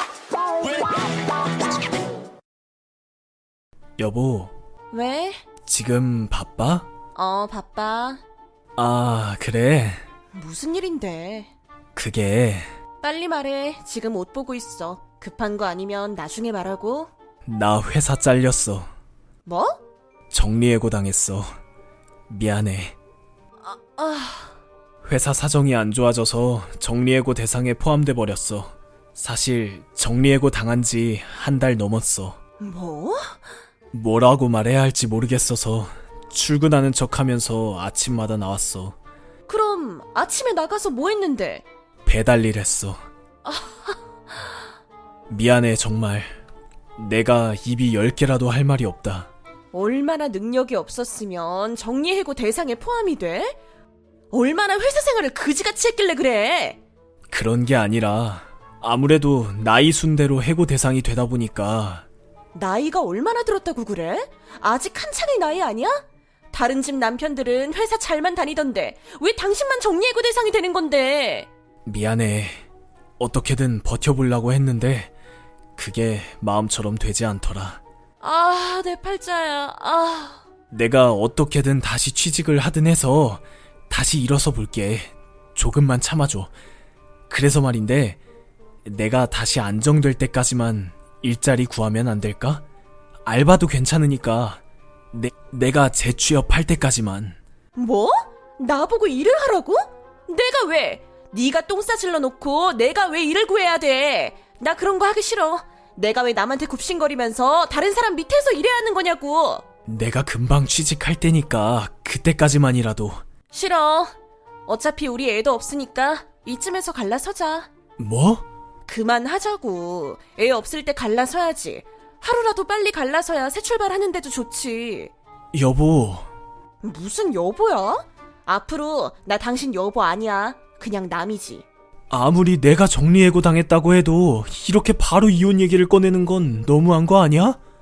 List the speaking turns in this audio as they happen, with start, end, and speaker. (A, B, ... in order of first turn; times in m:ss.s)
0:04.0-0:04.5 A
0:04.9-0:05.4 B
0:05.7-0:06.9 A
0:07.2-0:08.2 B
0:08.8-0:10.0 A
0:10.3-0:11.5 B
0:12.0-0:12.7 A
0:13.0-0:17.1 B
0:17.4-0:18.9 A
0:19.5-0:19.8 B
0:20.3-0:21.5 A
0:22.3-0:23.0 A
0:23.6-0:24.6 B
0:25.0-0:32.4 A
0:32.6-0:33.4 B
0:33.9-0:39.0 A
0:39.5-0:41.6 B
0:42.1-0:43.0 A
0:43.4-0:44.0 B
0:45.3-0:46.4 A
0:47.0-0:49.3 A
0:49.7-0:53.6 B
0:54.3-0:56.8 B
0:57.3-1:02.1 A
1:02.6-1:11.5 B
1:11.9-1:12.6 A
1:13.2-1:15.1 A
1:15.8-1:17.8 A
1:18.2-1:20.4 B
1:20.7-1:26.5 A
1:27.3-1:28.2 A
1:28.8-1:32.6 A
1:33.2-1:37.4 A
1:37.8-1:49.6 B
1:49.9-1:53.2 A
1:53.5-1:54.1 B
1:54.7-1:57.7 B
1:58.0-1:58.5 A
1:58.9-2:05.1 B
2:05.5-2:06.3 A
2:06.8-2:11.6 B
2:12.1-2:17.6 A